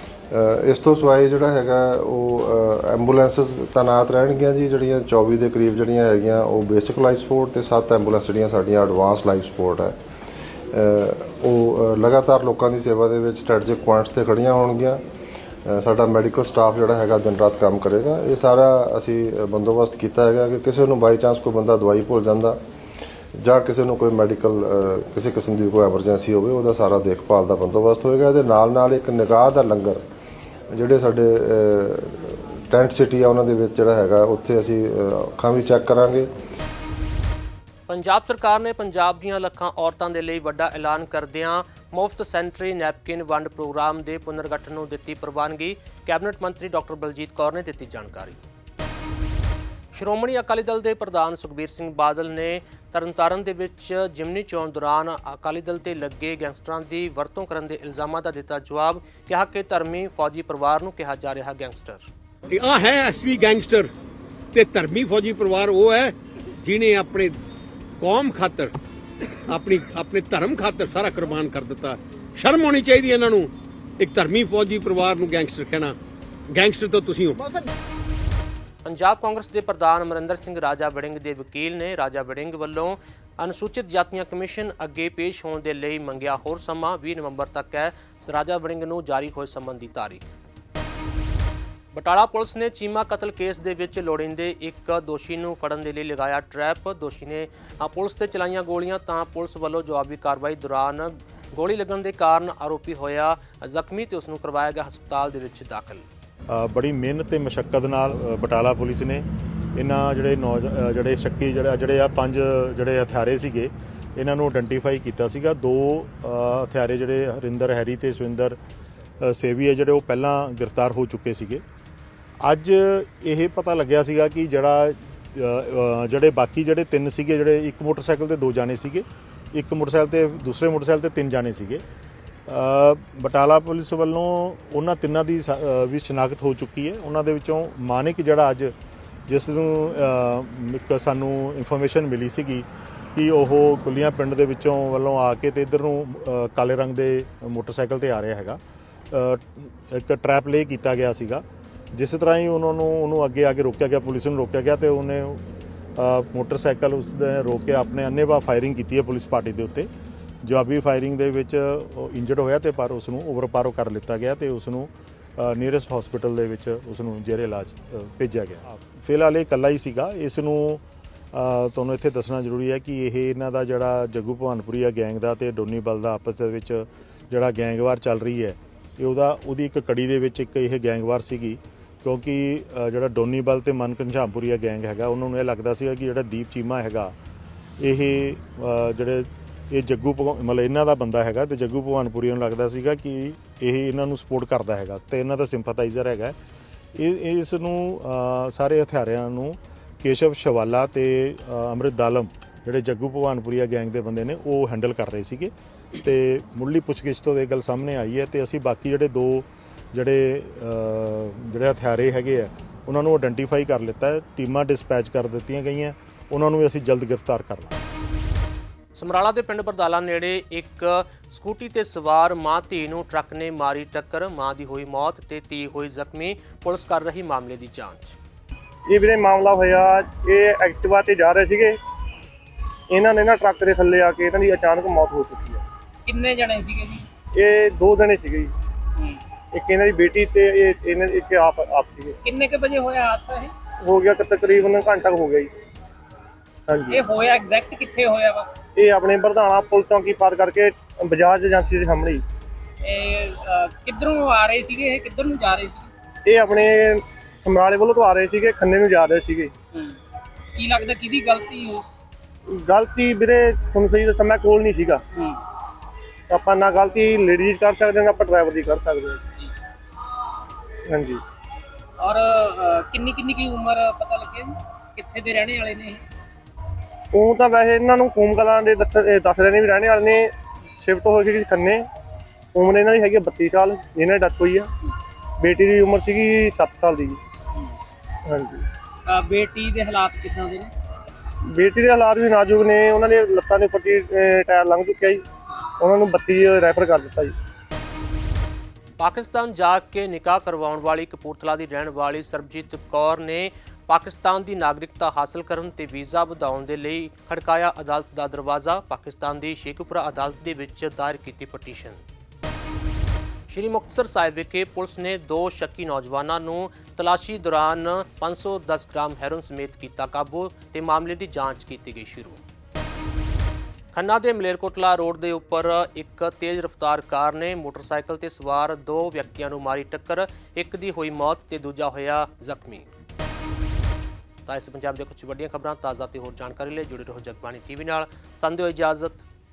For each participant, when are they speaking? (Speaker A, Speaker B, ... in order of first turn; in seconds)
Speaker A: 0.3-10.0, 10.7-15.0, 15.7-22.6, 23.4-30.0, 30.7-36.3
Speaker B: 37.9-48.4, 49.9-62.0, 78.8-90.3, 91.9-106.1, 218.9-228.2, 299.0-312.0, 313.5-322.4, 323.9-332.9, 334.5-339.2
Speaker C: 62.5-63.9, 64.5-67.4, 68.0-68.8, 69.5-76.0, 76.5-77.7
Speaker D: 106.5-118.6, 119.2-121.6, 122.4-131.8, 132.5-138.7, 139.3-148.6, 149.1-155.4, 156.0-159.9, 160.4-187.2, 187.8-196.3, 196.9-217.8
Speaker E: 228.9-231.8, 232.9-235.6, 237.3-238.5, 239.5-242.2, 243.8-245.5, 246.7-247.0, 248.8-252.2, 256.3-259.5, 262.5-265.0, 266.3-269.2, 270.9-271.2, 277.1-280.3, 280.8-281.9, 282.6-284.7, 285.4-287.2, 288.2-288.6, 291.5-295.2, 295.8-297.3
Speaker F: 236.1-237.1, 242.2-243.5, 246.9-248.5, 252.8-255.9, 260.6-261.8, 265.1-265.4, 272.0-276.0, 289.1-290.7